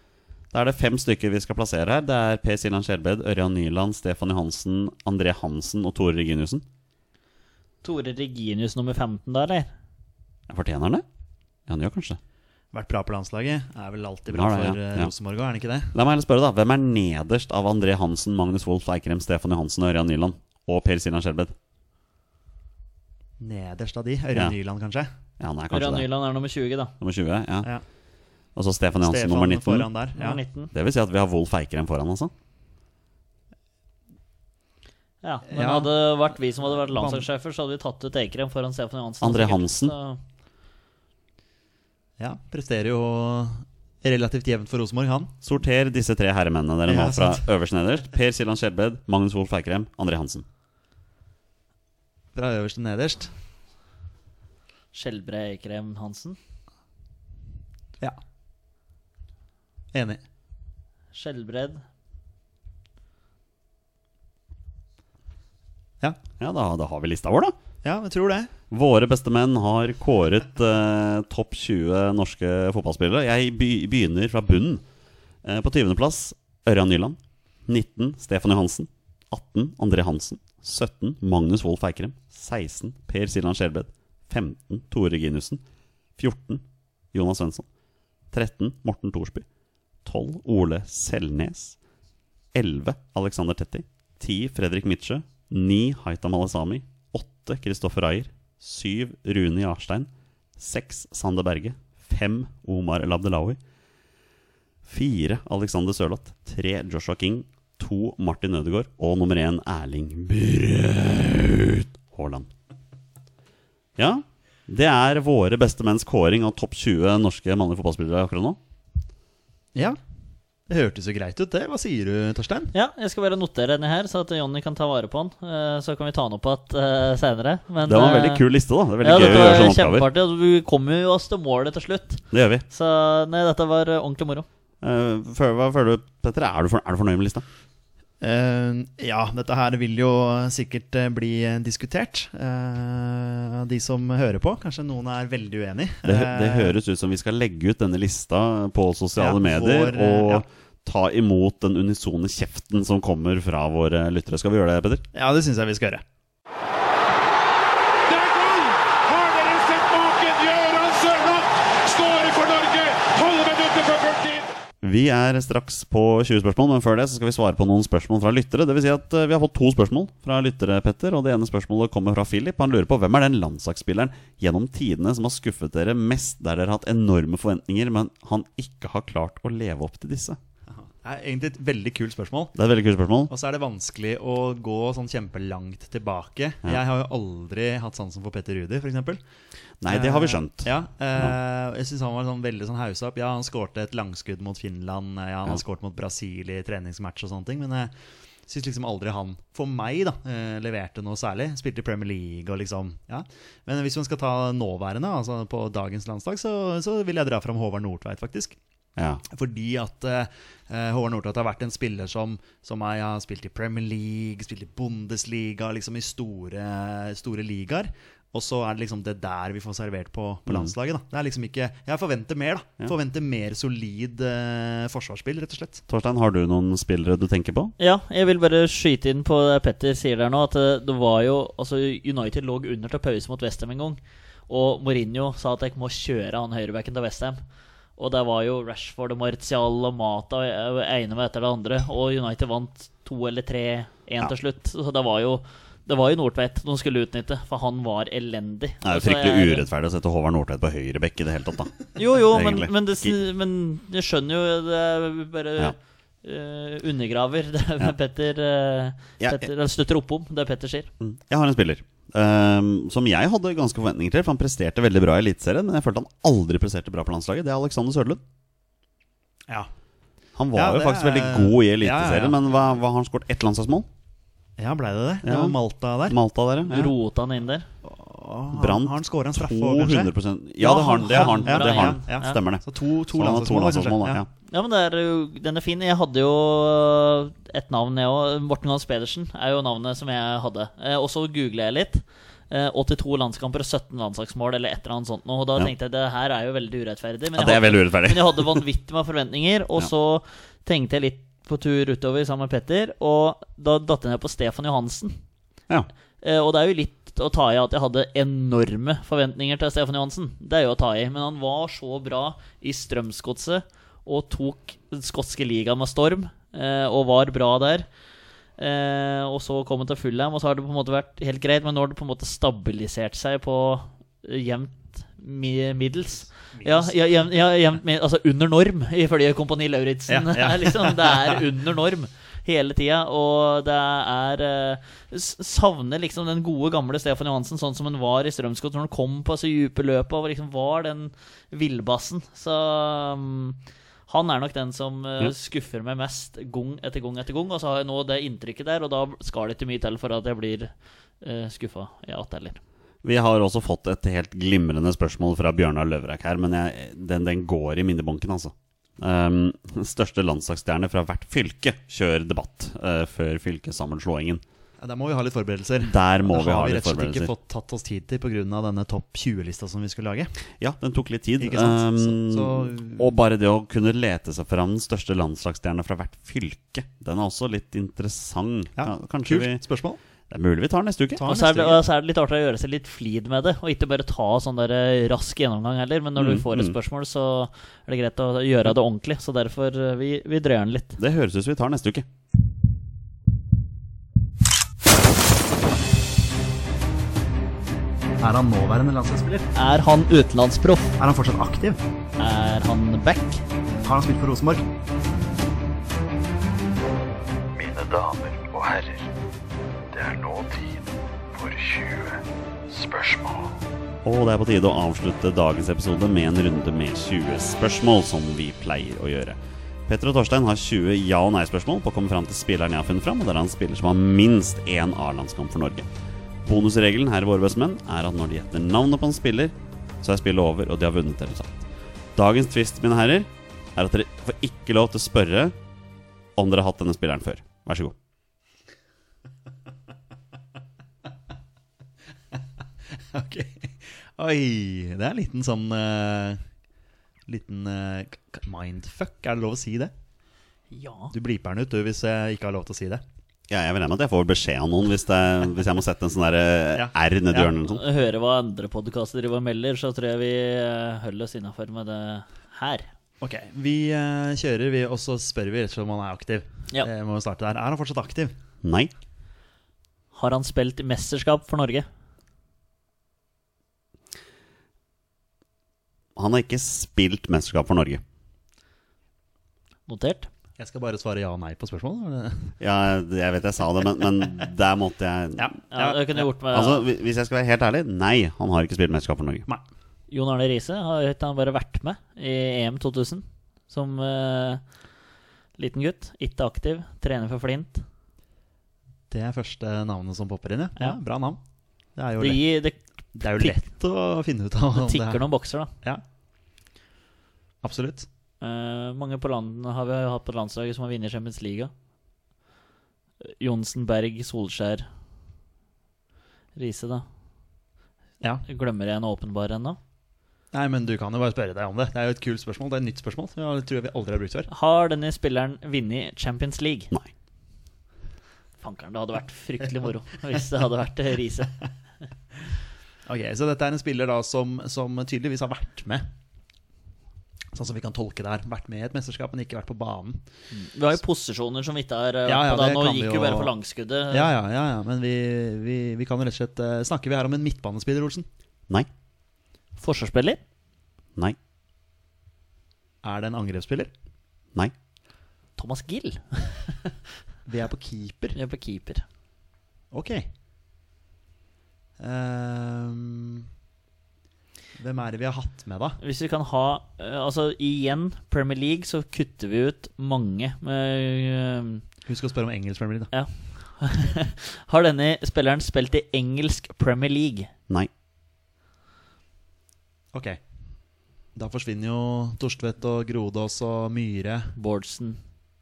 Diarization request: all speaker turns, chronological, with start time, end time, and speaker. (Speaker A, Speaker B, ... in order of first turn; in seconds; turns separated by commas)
Speaker A: 0.5-6.6, Speaker B: 7.8-9.7, Speaker A: 10.5-11.0, Speaker A: 11.7-12.2, Speaker C: 12.7-15.9, Speaker A: 14.3-15.1, Speaker A: 15.9-21.5, Speaker C: 23.4-25.1, Speaker A: 25.4-26.1, Speaker B: 25.7-26.9, Speaker A: 27.0-27.7, Speaker A: 28.6-29.9, Speaker C: 29.0-30.4, Speaker B: 30.1-30.7, Speaker A: 30.7-32.3, Speaker B: 35.2-40.2, Speaker C: 35.5-35.9, Speaker C: 36.8-37.2, Speaker A: 39.2-39.9, Speaker C: 42.2-45.3, Speaker A: 45.4-50.4, Speaker C: 46.9-47.5, Speaker C: 52.3-53.3, Speaker B: 54.9-56.4, Speaker C: 59.9-60.2, Speaker B: 61.1-61.8, Speaker A: 66.4-67.5, Speaker C: 67.8-68.5, Speaker A: 68.7-74.8, Speaker A: 75.4-85.6, Speaker A: 86.2-87.7, Speaker A: 88.3-89.4, Speaker A: 90.0-91.8, Speaker A: 92.5-103.6, Speaker A: 104.8-112.5, Speaker A: 114.0-118.6, Speaker C: 120.7-122.7, Speaker B: 122.7-128.4, Speaker A: 127.8-130.1, Speaker B: 129.0-134.4, Speaker A: 132.3-132.6, Speaker A: 134.8-137.4, Speaker C: 138.2-146.8, Speaker A: 146.0-155.0, Speaker C: 149.2-150.4, Speaker C: 155.1-156.0, Speaker D: 158.1-164.5, Speaker A: 164.8-180.4, Speaker C: 180.7-182.5, Speaker A: 182.5-183.3, Speaker C: 183.3-189.2, Speaker A: 189.8-191.3, Speaker C: 189.9-197.9, Speaker C: 198.5-208.6, Speaker A: 209.0-209.2, Speaker C: 209.3-225.8, Speaker A: 225.9-227.7, Speaker B: 227.8-237.4, Speaker B: 238.0-249.6, Speaker A: 248.8-253.1, Speaker B: 251.9-260.9, Speaker A: 259.2-259.5, Speaker A: 261.0-268.2, Speaker A: 270.4-273.9, Speaker C: 270.5-272.4, Speaker C: 274.6-276.2, Speaker A: 275.2-275.6, Speaker A: 276.1-276.9, Speaker B: 276.6-277.7, Speaker C: 277.8-280.1, Speaker A: 278.5-284.3, Speaker B: 280.6-282.4, Speaker C: 280.7-284.2, Speaker B: 284.5-305.2, Speaker A: 297.3-298.6, Speaker B: 306.2-317.9, Speaker B: 318.6-352.6, Speaker C: 326.5-326.9, Speaker C: 330.1-331.4, Speaker A: 353.0-364.4, Speaker C: 364.8-370.3, Speaker A: 365.8-367.3, Speaker A: 370.6-379.6, Speaker C: 371.4-373.1, Speaker C: 378.8-380.0, Speaker A: 380.3-381.2, Speaker C: 381.2-381.8, Speaker B: 381.2-391.0, Speaker A: 386.2-386.8, Speaker A: 391.0-392.1, Speaker C: 398.2-399.5, Speaker B: 399.5-400.9, Speaker C: 401.0-401.8, Speaker B: 402.2-403.4, Speaker C: 403.8-404.6, Speaker E: 407.6-409.0, Speaker E: 409.9-410.8, Speaker E: 411.4-413.5, Speaker A: 414.0-425.9, Speaker A: 426.4-431.6, Speaker A: 432.1-435.5, Speaker A: 436.4-437.9, Speaker C: 443.0-446.4, Speaker C: 447.3-449.9, Speaker B: 450.7-451.1, Speaker C: 451.1-453.0, Speaker A: 453.5-457.8, Speaker C: 456.7-457.5, Speaker B: 457.7-462.9, Speaker C: 463.2-468.3, Speaker A: 468.6-468.9, Speaker B: 470.1-471.9, Speaker A: 476.1-478.0, Speaker B: 479.9-480.3, Speaker C: 480.6-482.5, Speaker A: 482.6-485.5, Speaker C: 485.4-486.2, Speaker B: 485.7-486.8, Speaker A: 486.5-489.4, Speaker B: 490.1-494.6, Speaker B: 495.6-497.8, Speaker C: 499.1-501.4, Speaker C: 501.9-502.4, Speaker B: 502.2-503.6, Speaker C: 503.1-505.2, Speaker B: 504.7-505.7, Speaker C: 507.6-508.1, Speaker B: 508.4-511.7, Speaker B: 513.2-514.9, Speaker B: 516.5-517.0, Speaker B: 518.5-519.8, Speaker C: 520.5-524.5, Speaker B: 524.5-526.9, Speaker B: 528.6-531.5, Speaker C: 533.0-536.1, Speaker C: 537.5-540.2, Speaker B: 540.5-544.3, Speaker C: 542.2-543.5, Speaker C: 544.1-548.2, Speaker B: 549.8-550.4, Speaker C: 553.0-553.9, Speaker B: 555.6-557.0, Speaker C: 557.5-558.4, Speaker B: 558.3-559.0, Speaker C: 559.9-560.2, Speaker C: 562.0-563.5, Speaker C: 564.8-566.0, Speaker B: 566.0-571.8, Speaker C: 572.0-573.1, Speaker B: 573.1-577.5, Speaker C: 580.1-580.4, Speaker C: 581.4-584.5, Speaker B: 584.6-585.2